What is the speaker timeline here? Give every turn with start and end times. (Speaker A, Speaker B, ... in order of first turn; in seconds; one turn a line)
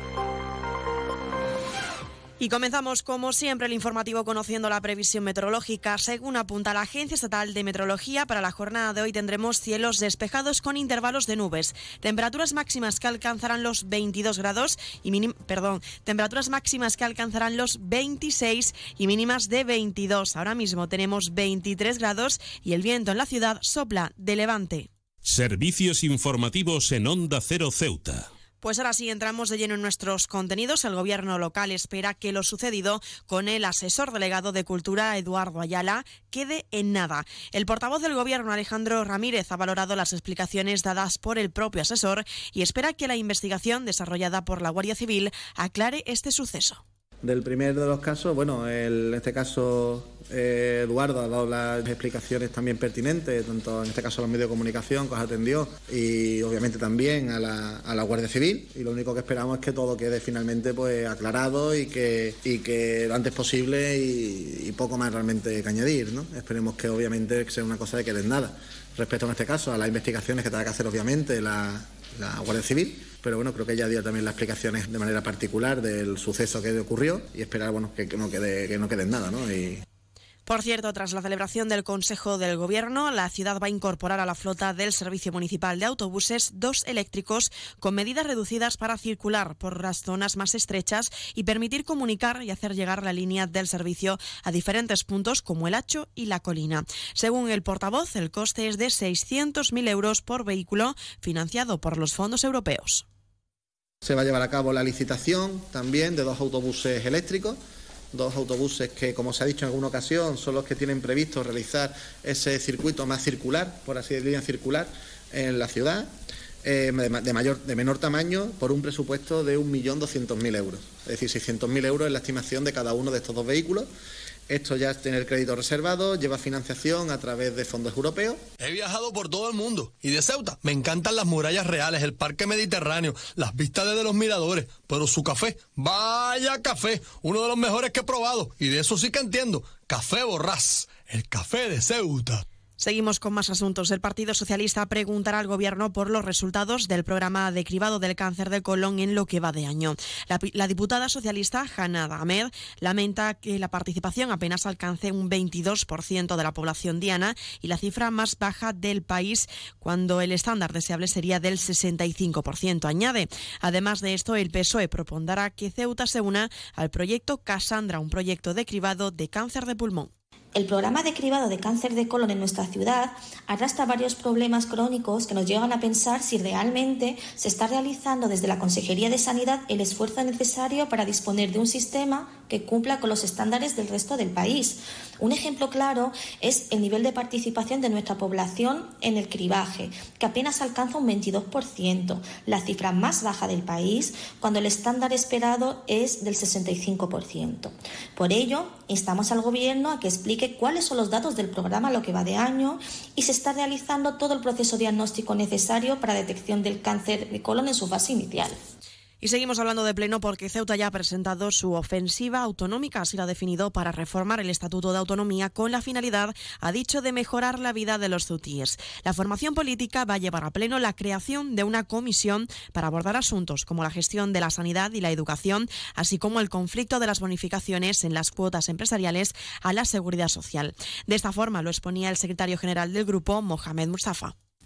Speaker A: 2.4-24.9
Speaker B: 25.2-28.3
Speaker A: 28.6-46.8
Speaker C: 47.2-79.8
Speaker A: 80.5-103.0
Speaker C: 104.0-107.6
Speaker C: 108.1-116.1
Speaker C: 116.6-123.9
Speaker C: 124.5-128.4
Speaker D: 128.6-142.4
Speaker A: 142.8-170.1
Speaker E: 170.5-208.6
Speaker A: 209.2-234.3